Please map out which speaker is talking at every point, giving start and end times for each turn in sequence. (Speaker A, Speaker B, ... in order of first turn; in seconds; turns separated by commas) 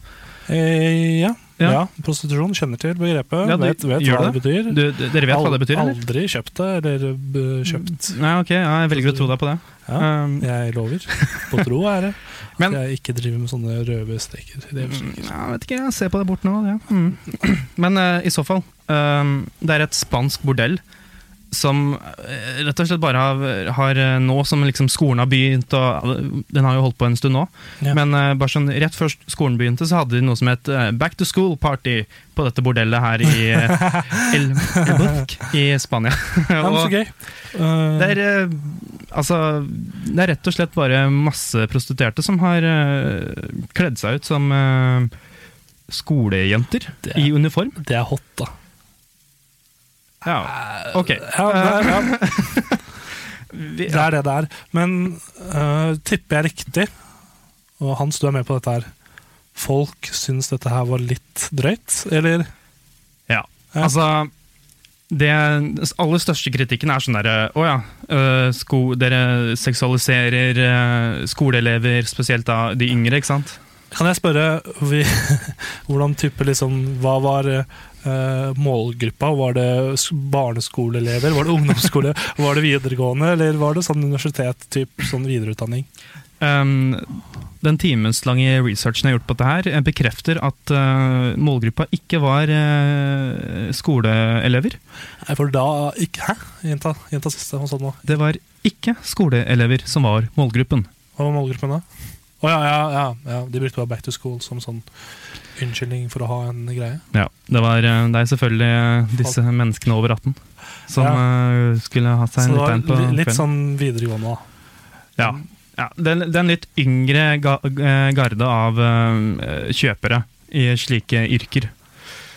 Speaker A: 0.5-8.1, Speaker B: 3.4-6.0, Speaker B: 7.8-10.5, Speaker A: 8.9-9.3, Speaker A: 9.8-15.2, Speaker B: 11.1-11.6, Speaker B: 14.8-20.8, Speaker B: 21.5-36.9, Speaker A: 33.8-34.2, Speaker A: 36.6-38.2, Speaker B: 38.0-45.1, Speaker B: 45.9-47.8, Speaker A: 47.0-48.5, Speaker B: 50.2-52.8, Speaker A: 50.5-52.5, Speaker B: 53.5-54.1, Speaker A: 53.9-56.9, Speaker A: 57.8-58.9, Speaker A: 59.5-62.5, Speaker B: 63.3-64.3, Speaker B: 65.1-73.6, Speaker A: 73.9-85.9, Speaker B: 86.4-94.8, Speaker A: 95.2-98.0, Speaker B: 98.0-100.9, Speaker A: 101.2-101.8, Speaker A: 102.4-104.8, Speaker A: 105.5-107.0, Speaker B: 107.1-113.4, Speaker A: 110.9-111.2, Speaker A: 112.4-114.4, Speaker B: 115.2-121.7